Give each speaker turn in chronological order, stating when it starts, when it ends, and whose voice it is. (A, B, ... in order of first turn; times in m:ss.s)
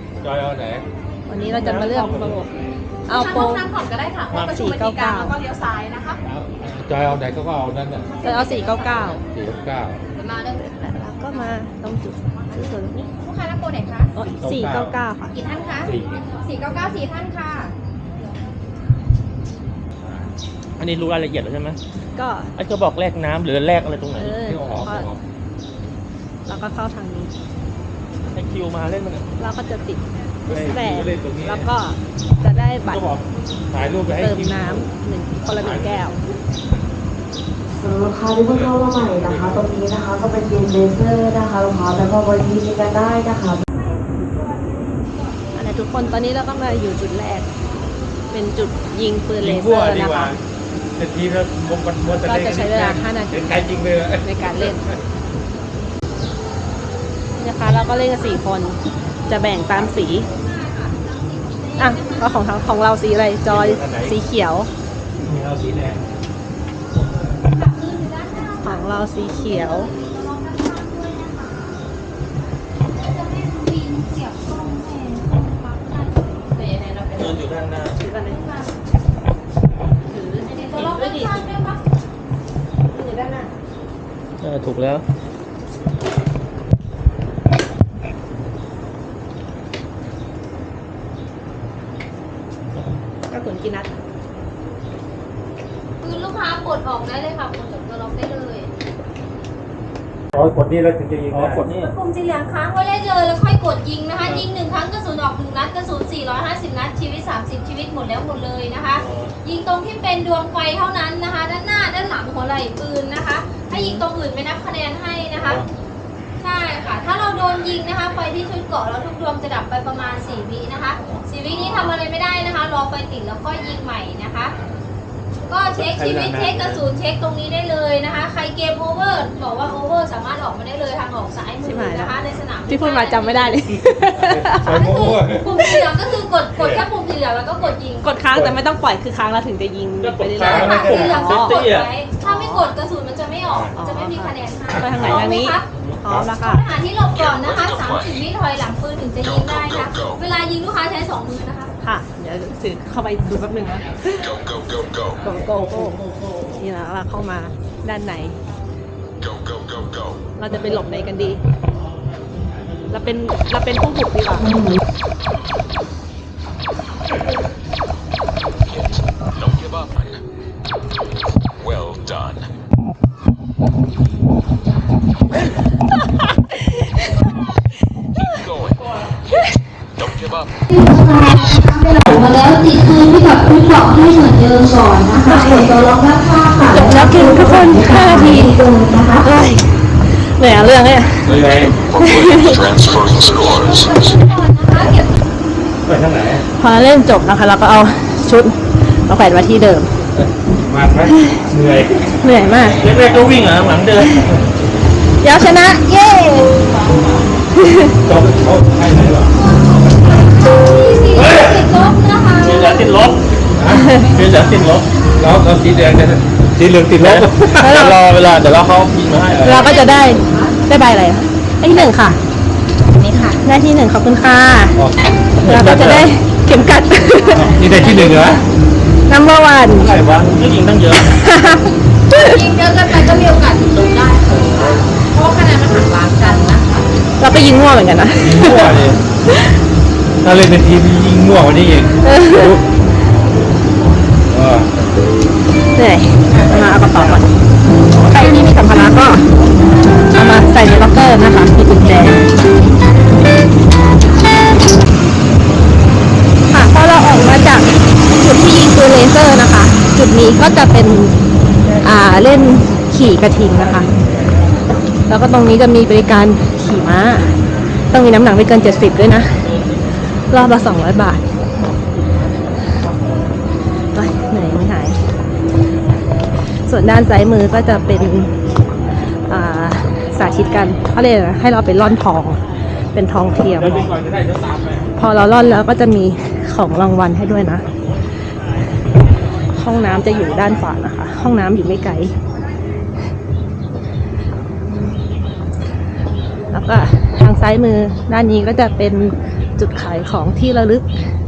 0:00.2-0:00.8 A
0:01.3-0:02.5 B
0:01.4-0:02.4 C
0:03.0-0:03.7 B
0:03.1-0:06.2 D
0:04.3-0:04.7 C
0:04.4-0:05.4 B
0:06.2-0:08.1 A
0:08.0-0:09.2 D
0:08.2-0:09.2 B
0:09.3-0:10.0 A
0:10.1-0:10.7 D
0:10.6-0:13.1 B
0:13.2-0:14.1 D
0:14.1-0:15.3 B
0:14.4-0:14.9 A
0:15.3-0:17.7 D
0:15.8-0:16.3 A
0:20.8-0:21.8 C
0:22.2-0:22.5 B
0:22.6-0:24.3 C
0:24.2-0:25.1 B
0:24.2-0:25.2 A
0:26.4-0:27.3 B
0:28.3-0:29.3 C
0:29.4-0:33.0 B
0:30.5-0:31.7 A
0:32.9-0:33.2 C
0:33.7-0:34.9 A
0:34.1-0:36.2 B
0:35.5-0:36.0 A
0:37.8-0:43.6 E
0:38.5-0:39.6 A
0:45.5-0:47.5 B
0:48.3-0:50.4 B
0:49.4-0:50.4 A
0:51.0-0:55.0 A
0:52.2-0:53.6 B
0:54.2-0:54.8 B
0:57.4-1:00.3 B
0:59.8-1:02.7 D
1:01.8-1:04.7 B
1:03.4-1:04.2 A
1:05.2-1:06.0 A
1:07.5-1:11.8 D
1:08.6-1:09.9 B
1:12.9-1:17.4 D
1:17.1-1:18.0 C
1:18.0-1:18.4 B
1:18.0-1:18.7 D
1:20.1-1:21.4 B
1:20.4-1:21.8 D
1:22.9-1:23.5 B
1:24.4-1:25.0 C
1:33.3-1:34.0 B
1:36.0-1:38.7 D
1:40.3-1:41.7 A
1:41.3-1:41.9 C
1:41.8-1:55.6 D
1:49.0-1:49.3 C
1:53.7-1:54.0 B
1:56.4-2:04.5 D
2:05.4-2:13.6 D
2:05.7-2:06.8 A
2:11.6-2:12.1 B
2:12.7-2:14.8 B
2:14.1-2:15.5 A
2:14.6-2:18.1 D
2:16.6-2:16.8 A
2:18.0-2:21.6 B
2:20.0-2:21.9 C
2:20.3-2:21.1 A
2:20.4-2:25.6 D
2:22.2-2:22.7 B
2:23.4-2:23.7 A
2:23.8-2:26.6 B
2:24.8-2:25.3 A
2:26.4-2:31.7 D
2:31.8-2:34.4 B
2:35.2-2:38.4 B
2:35.8-2:36.4 A
2:40.4-2:41.4 B
2:42.9-2:44.6 B
3:00.7-3:09.0 D
3:05.3-3:05.7 B
3:06.7-3:12.7 B
3:11.3-3:11.8 A
3:12.6-3:15.1 D
3:15.8-3:16.4 A
3:16.5-3:19.9 B
3:20.1-3:22.0 A
3:22.1-3:22.8 B
3:22.8-3:24.4 C
3:25.2-3:26.5 B
3:27.6-3:27.9 B
3:28.0-3:29.3 A
3:29.3-3:33.0 D
3:31.1-3:31.6 C
3:32.4-3:33.2 C
3:33.5-3:33.9 A
3:33.7-3:34.1 B
3:33.9-3:34.6 D
3:34.0-3:34.9 C
3:35.1-3:37.9 A
3:37.0-3:39.6 C
3:37.6-3:38.0 B
3:39.3-3:39.7 A
3:39.4-3:42.2 B
3:39.6-3:40.6 D
3:42.9-3:43.4 D
3:43.4-3:44.8 B
3:44.8-3:46.1 A
3:45.4-3:47.5 B
3:46.7-3:48.4 D
3:47.3-3:48.4 A
3:49.1-3:49.9 B
3:49.7-3:51.2 C
3:51.0-3:52.3 B
3:52.1-3:56.8 D
3:54.3-3:54.8 A
3:57.2-3:58.8 B
3:58.2-3:59.0 A
4:00.2-4:02.6 A
4:02.0-4:02.6 B
4:04.3-4:04.8 A
4:05.8-4:07.3 B
4:08.1-4:09.2 B
4:10.1-4:12.2 B
4:16.5-4:21.2 B
4:21.8-4:23.9 B
4:25.1-4:27.3 B
4:27.9-4:29.4 B
4:30.3-4:31.2 B
4:33.9-4:35.0 B
4:36.6-4:38.3 B
4:39.3-4:42.4 B
4:42.9-4:43.9 B
4:43.4-4:44.9 A
4:45.0-4:47.6 B
4:49.5-4:52.1 B
4:54.7-4:55.0 B
4:56.5-5:01.0 B